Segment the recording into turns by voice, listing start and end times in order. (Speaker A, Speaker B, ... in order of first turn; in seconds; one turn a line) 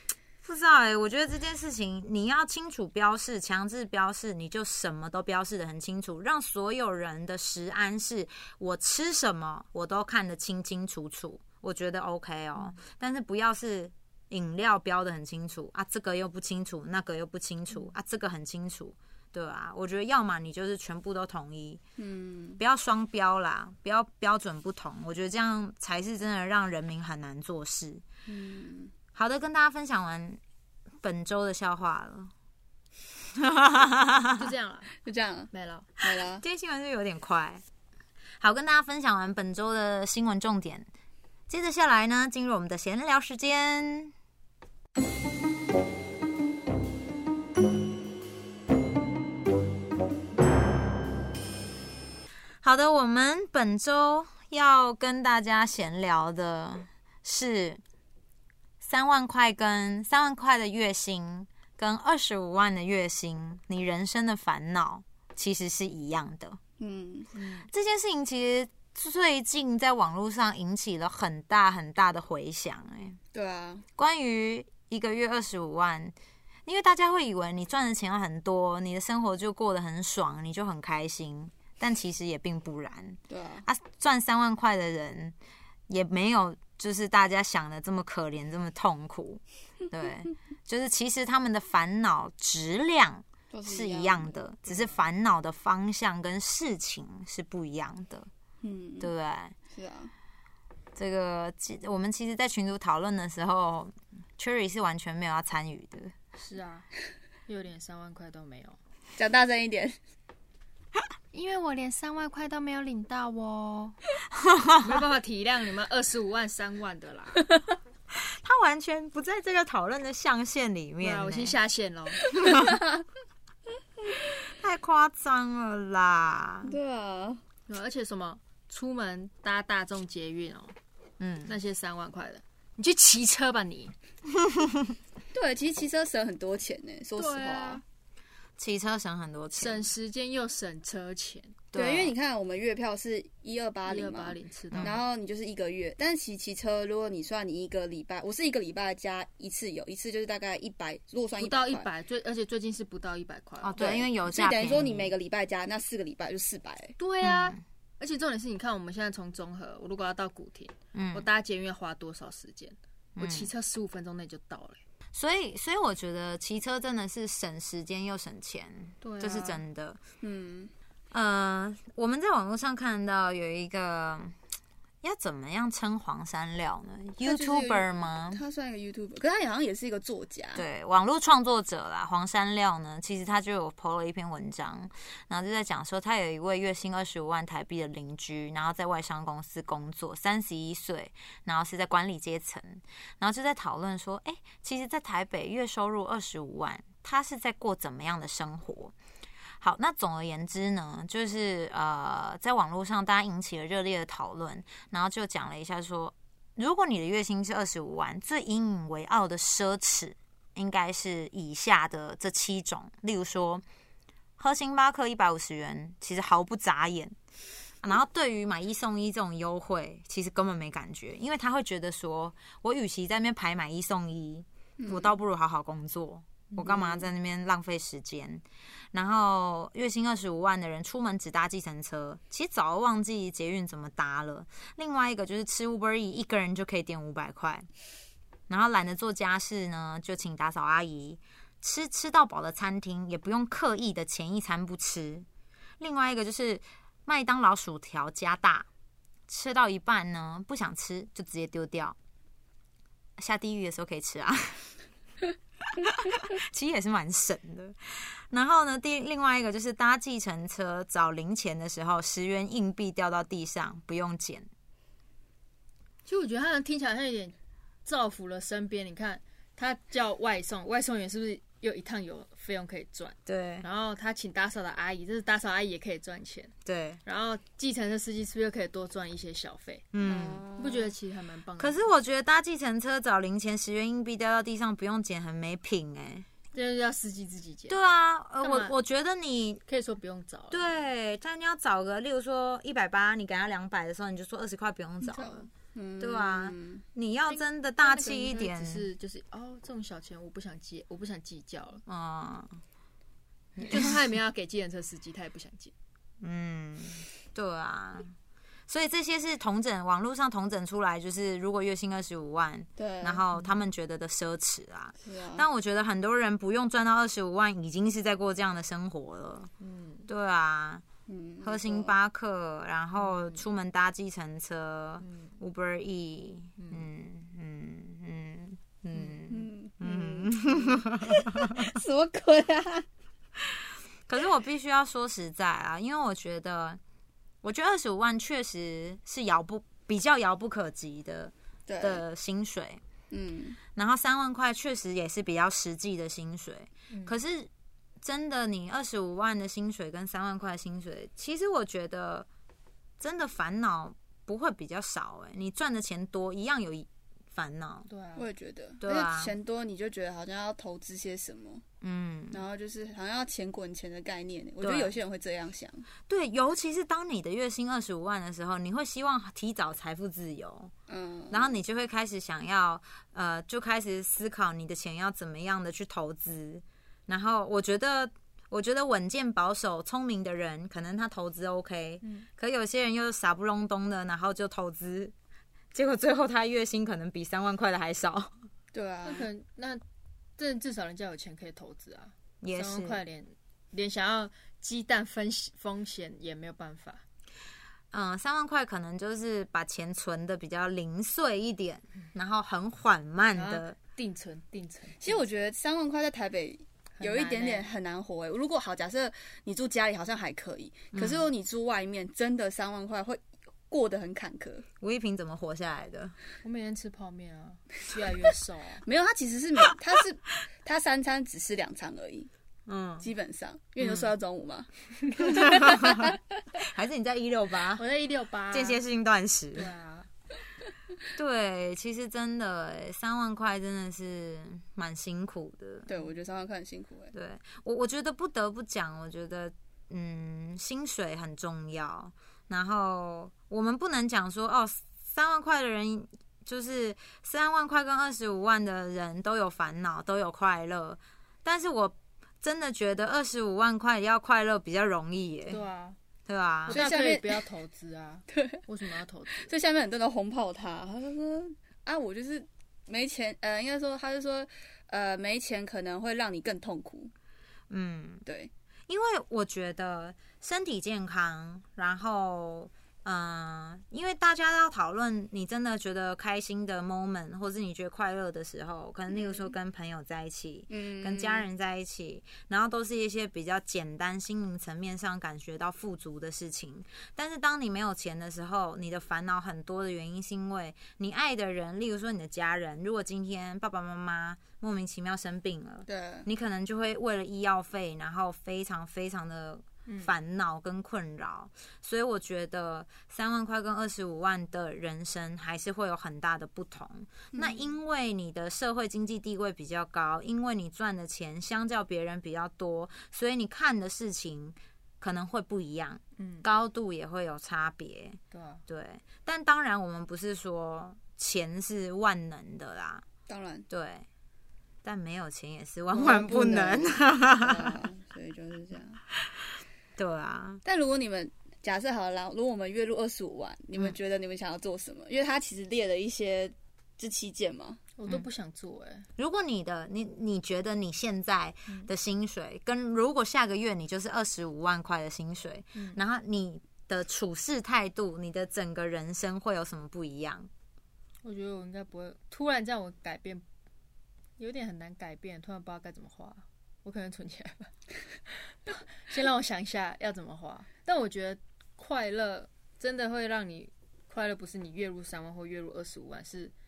Speaker A: 0.4-21.8
Speaker B: 22.0-22.6
Speaker A: 22.6-28.0
Speaker B: 28.3-28.9
Speaker A: 29.1-30.4
Speaker A: 31.0-32.3
Speaker A: 33.4-34.4
Speaker C: 34.4-34.9
Speaker B: 35.0-35.5
Speaker C: 35.5-35.9
Speaker B: 36.0-36.4
Speaker A: 36.4-37.6
Speaker A: 38.4-40.9
Speaker A: 41.5-44.1
Speaker A: 52.6-57.8
Speaker A: 58.8-66.6
Speaker B: 66.8-67.3
Speaker C: 67.3-67.7
Speaker A: 67.7-73.2
Speaker B: 73.3-73.8
Speaker A: 74.0-76.2
Speaker A: 76.7-85.3
Speaker B: 83.3-83.7
Speaker A: 85.9-98.3
Speaker B: 93.5-95.0
Speaker B: 98.6-99.1
Speaker A: 99.0-99.5
Speaker B: 99.7-100.1
Speaker A: 101.0-106.2
Speaker C: 106.4-106.9
Speaker C: 107.5-108.8
Speaker B: 109.2-110.0
Speaker C: 111.3-114.0
Speaker A: 114.4-115.0
Speaker C: 114.8-117.5
Speaker A: 118.1-121.6
Speaker C: 121.0-122.3
Speaker A: 122.3-122.8
Speaker A: 124.5-126.8
Speaker B: 126.7-127.4
Speaker C: 127.7-130.8
Speaker A: 131.2-131.6
Speaker C: 131.5-133.9
Speaker A: 134.4-134.9
Speaker B: 135.3-137.8
Speaker C: 137.2-137.8
Speaker A: 138.6-139.9
Speaker C: 139.5-141.6
Speaker A: 141.7-142.1
Speaker B: 141.7-151.9
Speaker C: 143.9-145.0
Speaker A: 144.7-145.0
Speaker C: 151.4-154.0
Speaker A: 153.6-155.2
Speaker B: 153.8-156.9
Speaker C: 157.0-164.8
Speaker A: 157.2-157.6
Speaker A: 160.9-161.3
Speaker A: 163.2-163.5
Speaker A: 165.1-170.0
Speaker C: 169.0-169.6
Speaker B: 170.2-170.7
Speaker A: 171.1-174.4
Speaker A: 175.0-178.4
Speaker B: 177.2-180.7
Speaker A: 180.6-198.9
Speaker A: 199.6-213.6
Speaker A: 214.4-217.2
Speaker A: 217.8-237.7
Speaker B: 224.8-225.1
Speaker B: 226.6-227.0
Speaker A: 238.5-245.3
Speaker A: 245.8-248.7
Speaker A: 249.3-252.0
Speaker A: 253.2-254.7
Speaker A: 255.6-264.5
Speaker C: 266.1-267.4
Speaker C: 267.9-276.5
Speaker A: 273.3-273.6
Speaker A: 276.6-277.0
Speaker C: 277.1-279.9
Speaker A: 279.9-280.4
Speaker B: 280.0-280.9
Speaker C: 280.6-281.9
Speaker A: 281.6-286.3
Speaker C: 286.5-287.8
Speaker A: 287.7-289.6
Speaker C: 288.4-288.7
Speaker C: 289.7-290.7
Speaker A: 290.5-295.5
Speaker B: 295.2-296.8
Speaker A: 296.0-298.9
Speaker C: 297.3-301.8
Speaker A: 301.9-302.6
Speaker A: 303.6-303.9
Speaker C: 303.6-305.7
Speaker A: 306.2-308.1
Speaker A: 308.7-319.5
Speaker B: 312.8-313.2
Speaker B: 315.1-315.4
Speaker C: 319.6-320.1
Speaker A: 320.1-320.8
Speaker B: 321.1-321.9
Speaker A: 321.4-331.8
Speaker C: 325.0-325.3
Speaker C: 326.6-326.8
Speaker B: 329.3-332.9
Speaker A: 333.4-336.8
Speaker A: 337.4-342.8
Speaker B: 341.7-342.0
Speaker B: 343.1-343.6
Speaker A: 343.8-347.5
Speaker C: 346.9-347.2
Speaker A: 348.0-352.3
Speaker A: 353.0-357.9
Speaker C: 357.9-358.3
Speaker B: 358.2-361.6
Speaker A: 358.8-359.3
Speaker A: 361.8-362.4
Speaker B: 362.3-365.9
Speaker A: 364.6-364.9
Speaker A: 366.1-370.7
Speaker B: 370.9-371.6
Speaker A: 371.3-385.1
Speaker C: 382.0-382.3
Speaker A: 385.7-388.3
Speaker B: 388.7-389.3
Speaker C: 389.0-389.8
Speaker C: 390.4-397.0
Speaker A: 392.4-393.0
Speaker A: 397.9-403.8
Speaker C: 403.4-405.2
Speaker B: 405.0-414.6
Speaker C: 407.0-407.7
Speaker A: 410.9-411.3
Speaker A: 414.8-416.1
Speaker C: 416.4-418.8
Speaker B: 418.9-422.3
Speaker A: 422.7-423.1
Speaker B: 423.0-426.2
Speaker A: 423.8-424.1
Speaker A: 425.2-427.8
Speaker C: 427.8-428.8
Speaker A: 428.5-429.7
Speaker C: 429.6-430.1
Speaker A: 431.2-435.9
Speaker B: 435.9-437.1
Speaker A: 437.1-455.6
Speaker C: 455.5-456.0
Speaker A: 456.3-456.8
Speaker C: 456.7-459.5
Speaker B: 456.7-457.4
Speaker B: 458.3-458.6
Speaker B: 459.4-467.1
Speaker A: 467.7-468.2
Speaker A: 468.9-523.0
Speaker B: 479.1-479.5
Speaker B: 480.7-481.5
Speaker B: 495.9-496.3
Speaker C: 499.9-500.1
Speaker B: 507.3-507.7
Speaker C: 516.2-516.5
Speaker C: 518.3-518.6
Speaker B: 523.3-523.7
Speaker A: 523.7-524.1
Speaker A: 524.8-527.8
Speaker B: 525.9-529.0
Speaker A: 530.0-530.6
Speaker B: 530.6-537.8
Speaker C: 538.0-539.1
Speaker A: 539.2-550.5
Speaker C: 551.2-553.4
Speaker C: 554.4-557.7
Speaker C: 558.7-566.5